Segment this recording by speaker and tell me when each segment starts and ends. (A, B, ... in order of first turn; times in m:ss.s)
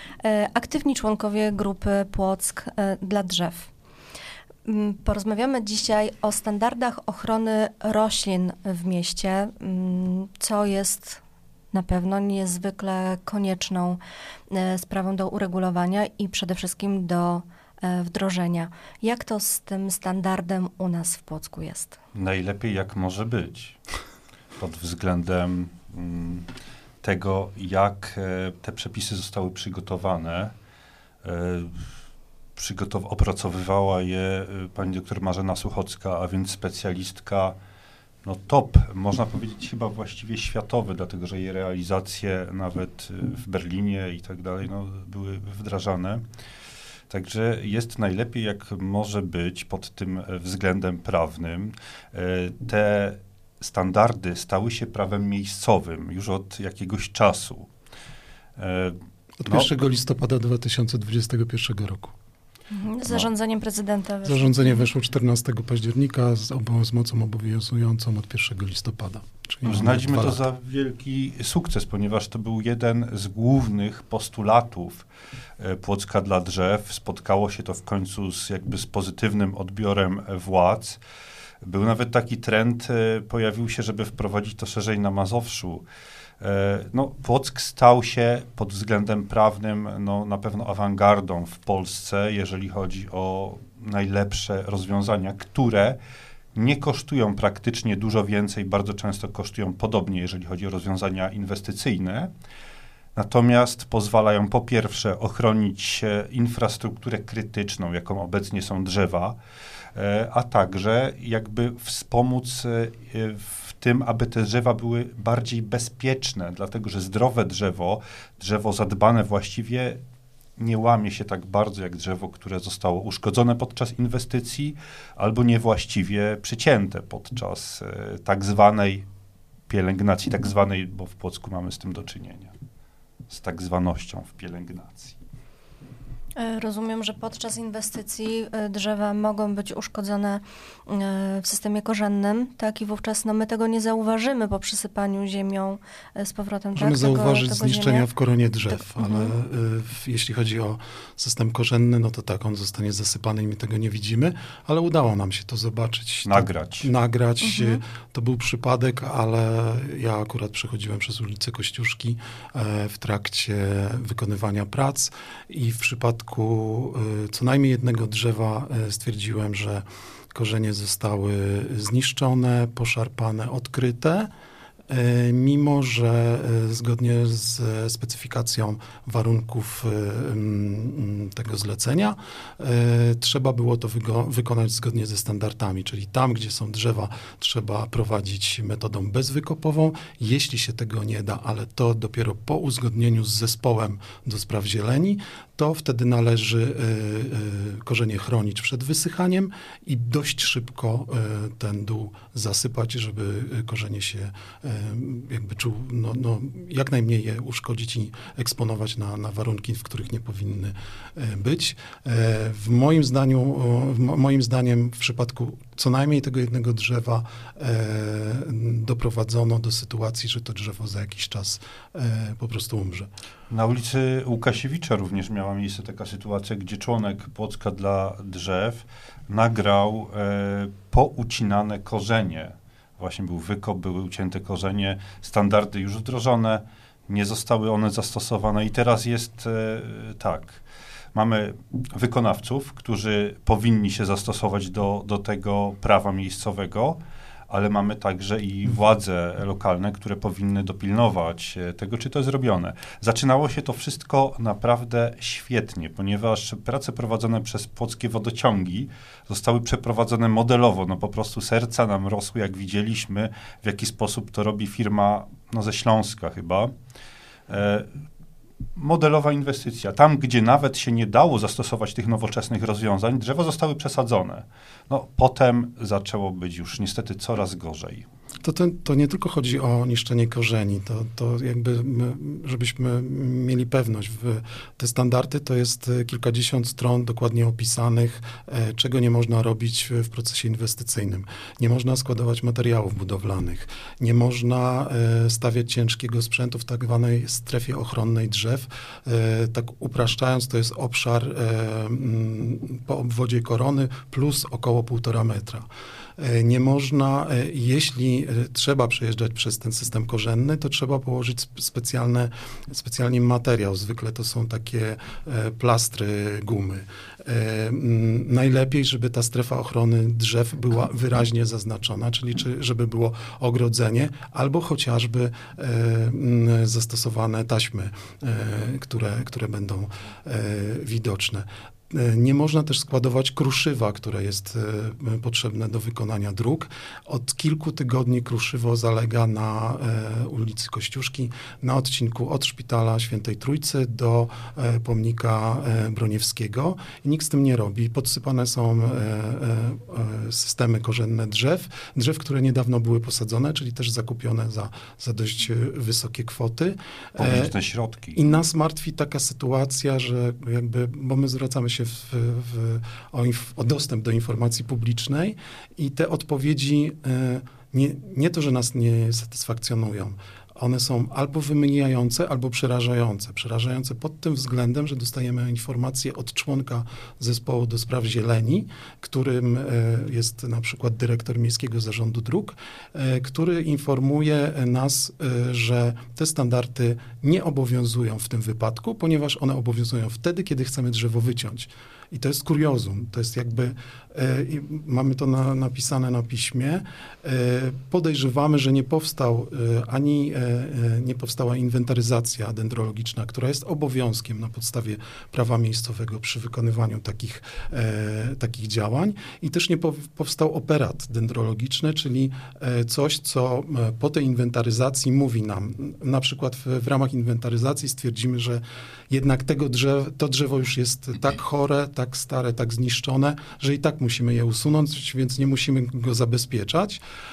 0:00.2-0:03.7 A
0:04.6-0:22.0 A
0:22.1-0:23.8 B
0:24.6-0:26.5 B
0:27.0-0:30.5 B
0:31.2-0:31.8 B
0:32.6-0:37.6 B
0:38.2-0:46.2 B
0:47.1-0:57.7 B
0:58.6-0:59.7 B
0:59.4-1:02.1 C
1:02.7-1:04.8 A
1:04.2-1:10.4 C
1:09.6-1:15.0 B
1:15.6-1:21.0 B
1:21.6-1:25.8 B
1:26.4-1:36.0 B
1:36.6-1:42.3 B
1:43.2-1:49.4 B
1:50.0-2:00.0 B
2:00.6-2:09.0 B
2:09.7-2:12.5 B
2:13.3-2:15.2 B
2:16.4-2:28.1 A
2:26.8-2:54.3 C
2:29.0-2:29.3 A
2:36.3-2:36.9 B
2:37.4-2:37.8 A
2:54.9-3:43.1 C
3:43.5-4:00.6 B
4:01.1-4:26.7 B
4:27.5-4:27.9 B
4:28.8-4:38.0 B
4:38.4-5:05.7 C
5:06.2-5:57.5 C
5:57.2-5:58.2 B
5:58.1-7:07.0 C